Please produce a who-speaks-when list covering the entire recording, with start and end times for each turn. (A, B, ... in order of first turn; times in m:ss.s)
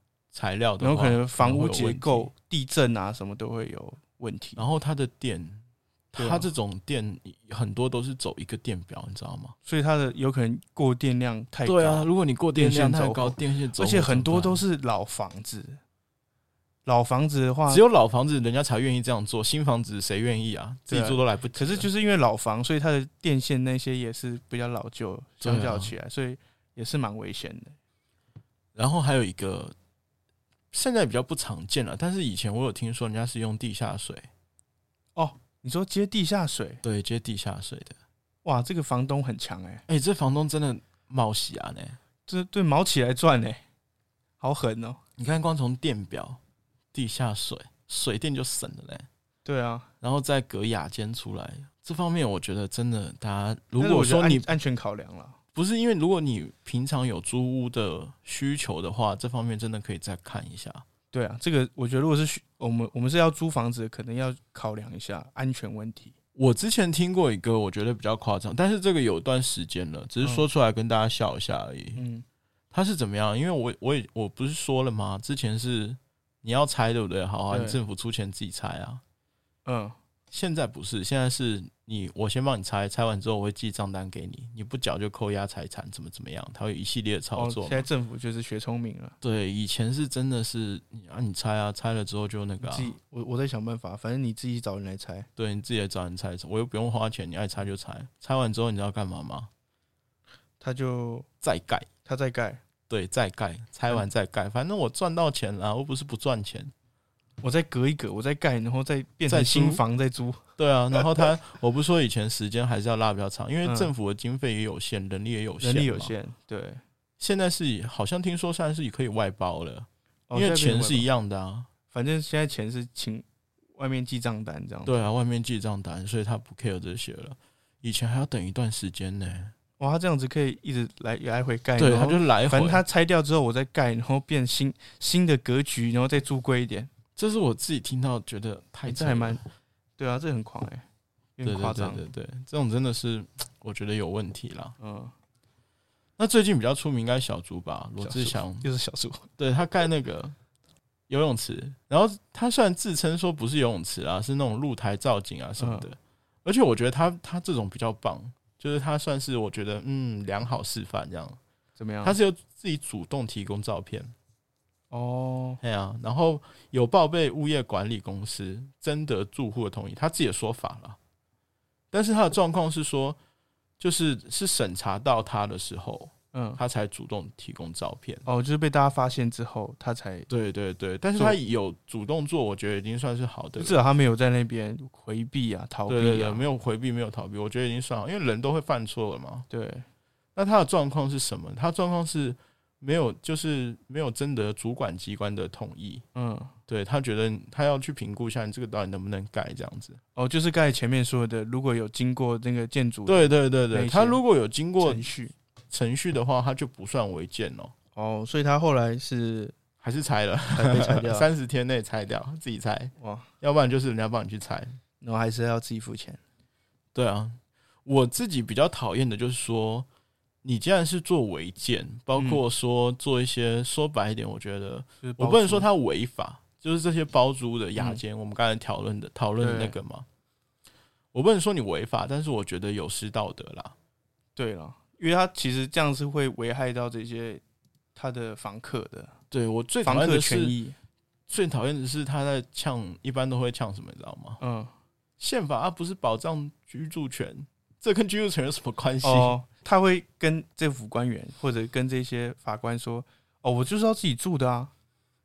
0:00.3-0:02.3 A
0:00.8-0:04.6 B
0:04.6-0:09.5 A
0:06.2-0:06.5 B
0:09.6-0:15.8 B
0:11.6-0:14.6 A
0:16.8-0:17.8 B
0:17.7-0:21.9 A
0:20.9-0:27.8 B
0:25.4-0:25.9 A
0:28.7-0:29.7 A
0:30.7-0:34.3 A
0:35.2-0:36.8 B
0:36.8-0:38.0 A
0:38.4-0:39.8 B
0:39.9-0:42.0 A
0:42.3-0:43.6 B
0:44.4-0:45.0 B
0:45.2-0:46.4 A
0:46.9-0:49.1 A
0:49.4-0:49.9 B
0:50.0-0:54.5 A
0:53.8-0:55.4 B
0:55.5-1:00.8 A
1:01.1-1:06.1 B
1:06.3-1:12.0 A
1:12.0-1:12.2 B
1:12.7-1:19.0 A
1:17.5-1:17.8 B
1:19.6-1:20.0 B
1:20.3-1:27.8 A
1:27.4-1:29.2 B
1:29.2-1:32.9 A
1:32.6-1:35.3 B
1:35.4-1:39.5 A
1:40.6-1:41.3 B
1:41.4-1:41.9 A
1:42.0-1:42.6 B
1:42.9-1:46.7 A
1:47.4-1:51.3 B
1:49.3-1:49.8 A
1:50.6-1:56.1 A
1:53.6-1:53.9 B
1:55.6-1:56.8 B
1:57.2-2:01.7 A
2:00.3-2:01.1 B
2:01.9-2:05.0 B
2:04.8-2:09.5 A
2:09.8-2:16.9 B
2:11.8-2:12.8 A
2:17.2-2:19.4 A
2:18.8-2:19.4 B
2:20.0-2:20.8 B
2:21.4-2:22.1 B
2:21.4-2:24.8 A
2:24.8-2:25.1 B
2:26.2-2:28.7 A
2:28.0-2:29.3 B
2:29.4-2:30.4 A
2:31.1-2:41.4 A
2:35.6-2:35.9 B
2:41.8-2:42.2 B
2:42.0-2:44.1 A
2:44.9-2:45.6 B
2:45.6-2:51.0 A
2:51.9-2:53.2 A
2:53.8-2:58.2 A
2:56.3-2:56.6 B
2:58.2-3:00.3 B
3:00.3-3:03.8 A
3:03.6-3:06.4 B
3:05.9-3:09.4 A
3:09.5-3:09.8 B
3:10.4-3:16.0 A
3:16.1-3:16.5 B
3:16.7-3:20.0 A
3:20.2-3:24.2 B
3:23.0-3:25.0 A
3:24.8-3:25.3 B
3:25.7-3:27.7 A
3:27.9-3:29.5 B
3:29.8-3:34.8 A
3:30.5-3:31.3 B
3:33.0-3:33.3 B
3:35.0-3:36.2 B
3:36.9-3:39.9 A
3:40.4-3:50.0 A
3:42.1-3:42.4 B
3:45.0-3:45.6 B
3:47.8-3:48.0 B
3:49.4-3:49.8 B
3:51.1-3:53.7 A
3:54.4-3:57.4 B
3:57.9-3:59.1 B
3:59.3-4:00.6 A
3:59.8-4:00.8 B
4:01.3-4:04.4 A
4:04.4-4:04.7 B
4:05.2-4:09.4 A
4:09.0-4:14.7 B